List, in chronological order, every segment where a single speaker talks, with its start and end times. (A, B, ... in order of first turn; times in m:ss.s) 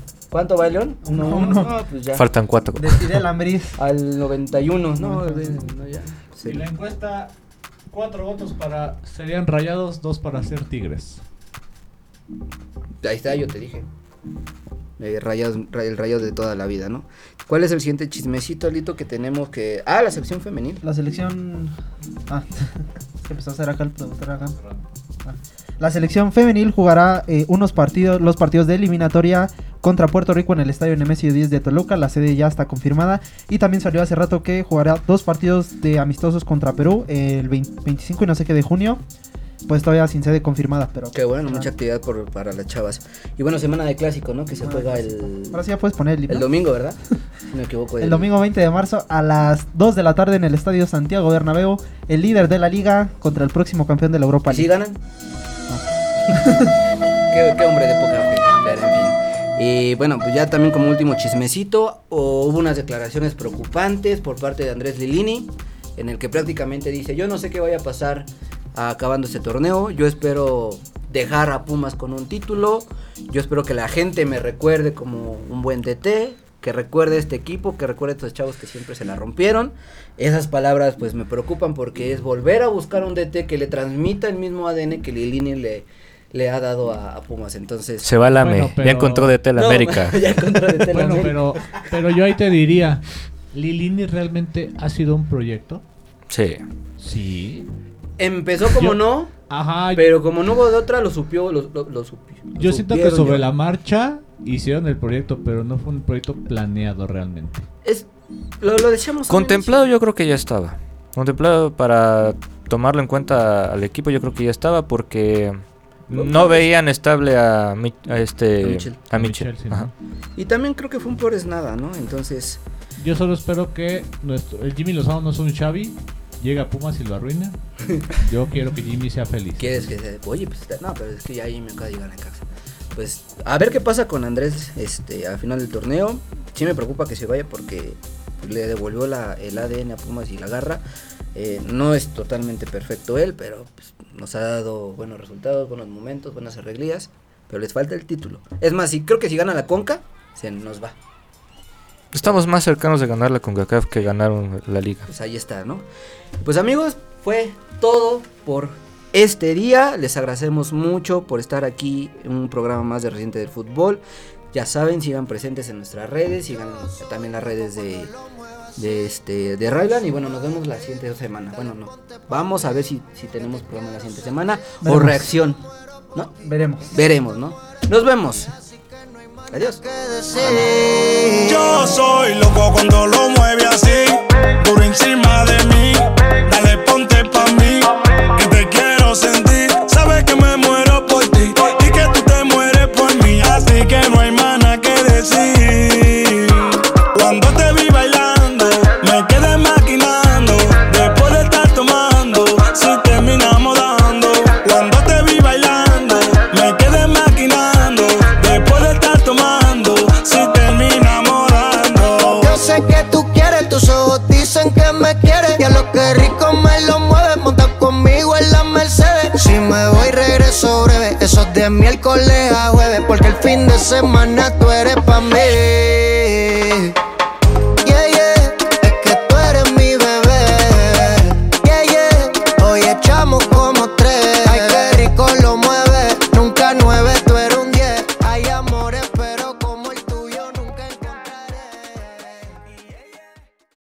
0:00.3-0:02.2 A
0:01.0-0:01.8 B
0:02.1-0:03.2 C
0:02.7-0:03.8 B
0:03.8-0:06.6 A
0:05.0-0:05.7 B
0:06.4-0:07.3 D
0:07.9-0:11.2 D
0:13.0-0:13.9 A
0:15.0-0:20.8 A
0:20.8-0:21.7 B
0:22.3-0:24.6 B
0:25.2-0:39.0 B
0:39.6-0:41.7 B
0:41.1-0:45.6 A
0:44.6-0:46.5 B
0:46.3-0:47.0 A
0:47.5-0:48.3 A
0:48.0-0:54.7 B
0:54.5-0:55.0 A
0:55.7-0:56.7 B
0:57.3-1:28.1 A
1:28.0-1:30.2 C
1:28.3-1:29.3 D
1:29.5-1:31.8 A
1:30.9-1:35.8 D
1:36.3-1:36.6 C
1:37.0-1:37.7 D
1:38.2-1:39.3 A
1:38.7-1:40.0 D
1:39.9-1:43.4 A
1:42.6-1:47.6 D
1:48.6-1:49.8 A
1:49.3-1:59.9 C
1:56.1-1:56.7 A
1:58.6-1:59.0 A
1:59.1-1:59.9 D
2:00.4-2:02.6 A
2:03.0-2:09.9 D
2:09.6-2:31.0 A
2:32.1-2:35.1 C
2:35.1-2:35.8 A
2:36.4-2:48.1 A
2:48.8-2:55.6 A
2:54.8-2:55.4 B
2:56.4-2:56.9 B
2:56.9-2:58.5 A
2:59.5-2:59.8 A
2:59.8-3:01.6 E
3:00.4-3:00.7 A
3:01.4-3:32.5 F
3:32.3-3:47.0 E
3:47.8-4:02.3 E